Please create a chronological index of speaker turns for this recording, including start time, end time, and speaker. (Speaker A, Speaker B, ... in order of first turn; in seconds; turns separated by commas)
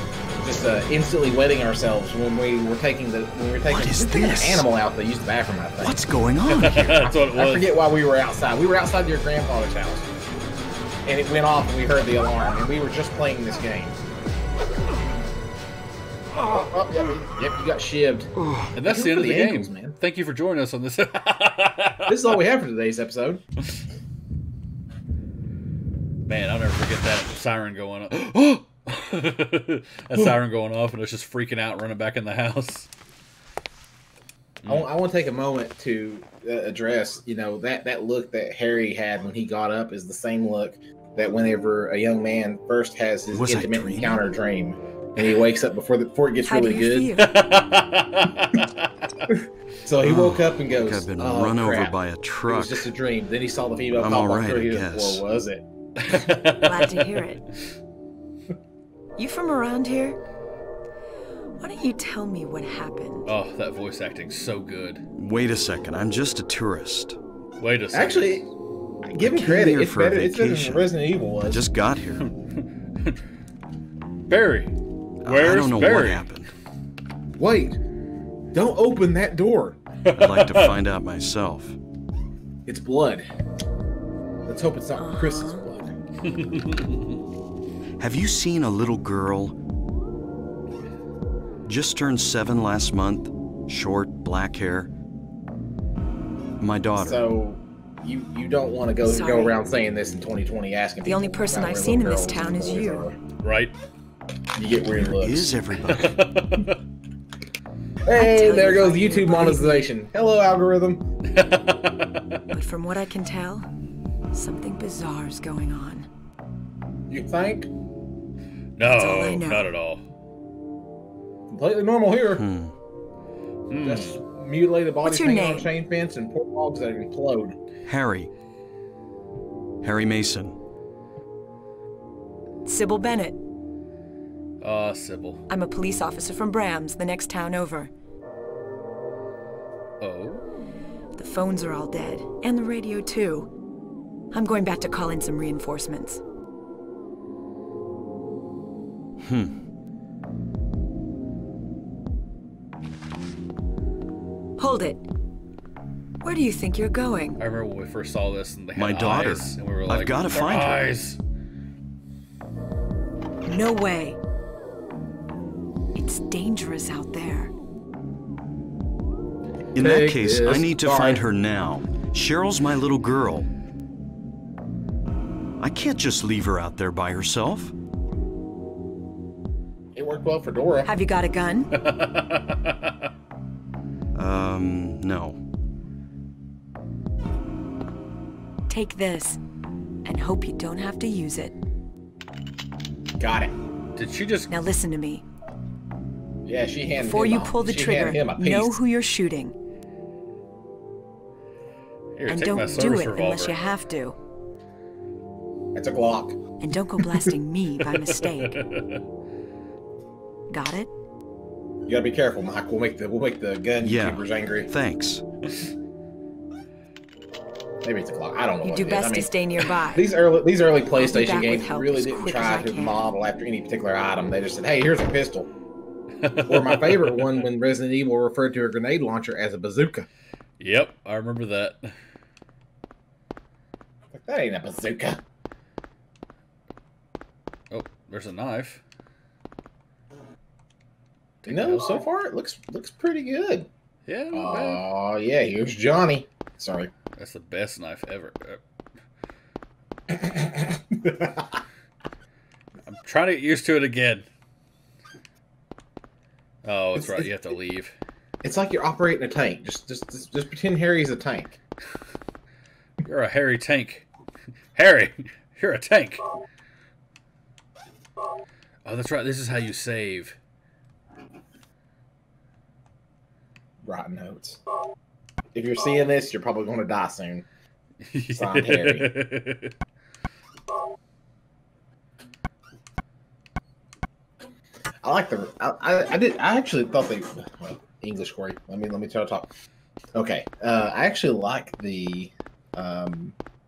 Speaker A: 0.4-6.0, Speaker B: 3.7-4.6, Speaker B: 5.8-7.0, Speaker C: 6.5-7.8, Speaker A: 7.0-10.1, Speaker A: 11.1-14.0, Speaker A: 16.4-19.9, Speaker C: 18.7-22.4, Speaker A: 22.1-23.4, Speaker C: 26.2-32.9, Speaker C: 34.6-34.9, Speaker A: 34.6-47.2, Speaker B: 43.3-44.2, Speaker D: 46.5-47.3, Speaker C: 47.2-48.9, Speaker A: 49.3-51.9, Speaker B: 50.0-52.9, Speaker A: 52.4-56.1, Speaker B: 54.0-55.2, Speaker C: 56.0-57.2, Speaker D: 56.6-57.4, Speaker D: 59.2-60.2, Speaker D: 61.6-63.3, Speaker C: 63.2-65.0, Speaker B: 65.2-67.2, Speaker C: 67.6-68.5, Speaker A: 67.9-68.5, Speaker A: 69.0-71.7, Speaker B: 69.2-70.9, Speaker B: 71.5-72.2, Speaker C: 72.2-73.2, Speaker C: 74.3-74.7, Speaker B: 75.2-76.5, Speaker C: 75.2-76.2, Speaker A: 77.4-77.8, Speaker A: 78.5-79.8, Speaker C: 80.0-80.8, Speaker B: 80.2-81.8, Speaker A: 82.7-83.3, Speaker A: 84.4-86.0, Speaker D: 85.0-85.7, Speaker C: 86.2-87.2, Speaker B: 88.0-89.5, Speaker B: 91.6-94.9, Speaker B: 96.6-97.2, Speaker A: 97.0-103.2, Speaker D: 99.0-99.6, Speaker D: 101.0-103.1, Speaker C: 103.4-103.7, Speaker A: 104.5-105.5, Speaker B: 105.0-106.1, Speaker C: 105.8-106.8, Speaker A: 108.0-111.1, Speaker D: 108.1-109.9, Speaker C: 111.2-112.4, Speaker D: 112.5-113.7, Speaker D: 114.3-116.1, Speaker A: 117.1-117.7, Speaker C: 118.8-120.0, Speaker D: 119.0-119.7, Speaker A: 121.5-122.4, Speaker B: 122.3-122.7, Speaker C: 123.7-124.2, Speaker A: 123.8-127.6, Speaker D: 125.0-125.7, Speaker B: 127.8-128.3, Speaker B: 129.8-130.6, Speaker D: 132.7-133.4, Speaker C: 134.6-135.4, Speaker D: 135.5-137.9, Speaker C: 140.0-140.4, Speaker D: 141.2-143.5, Speaker D: 144.3-146.2, Speaker B: 149.2-149.6, Speaker D: 154.6-155.1, Speaker D: 156.2-157.4, Speaker C: 157.4-161.2, Speaker B: 158.8-160.8, Speaker D: 163.4-164.2, Speaker D: 165.9-167.5, Speaker A: 169.7-171.2, Speaker B: 169.8-173.5, Speaker B: 175.6-177.7, Speaker A: 179.9-180.9, Speaker D: 180.8-181.8, Speaker C: 181.7-182.9, Speaker B: 184.1-185.4, Speaker D: 188.7-189.4, Speaker D: 190.0-191.5, Speaker A: 193.2-193.5, Speaker C: 193.9-194.5, Speaker D: 194.5-195.2, Speaker A: 196.4-198.8, Speaker D: 197.0-199.5, Speaker C: 202.2-203.5, Speaker D: 202.3-204.2, Speaker A: 205.7-206.4, Speaker D: 206.6-208.5, Speaker C: 207.8-209.0, Speaker D: 210.5-210.9, Speaker A: 211.9-214.7, Speaker B: 213.8-215.2, Speaker A: 217.8-219.3, Speaker D: 218.6-220.1, Speaker A: 219.9-225.5, Speaker D: 220.9-223.0, Speaker C: 226.2-227.3, Speaker A: 226.4-230.1, Speaker C: 230.6-231.9, Speaker A: 234.1-235.2, Speaker C: 237.7-238.8, Speaker C: 241.4-242.0, Speaker A: 241.5-243.7, Speaker C: 244.1-244.8, Speaker A: 244.3-246.9, Speaker C: 247.1-248.6, Speaker A: 250.1-251.6, Speaker C: 252.9-254.2, Speaker C: 256.6-257.9, Speaker A: 256.9-257.3, Speaker A: 258.4-261.6, Speaker C: 263.0-264.1, Speaker C: 264.7-266.2, Speaker C: 268.8-270.4, Speaker A: 273.8-274.6, Speaker A: 275.5-277.4, Speaker C: 278.0-279.7, Speaker A: 278.3-279.1, Speaker A: 285.0-289.5, Speaker A: 290.1-293.3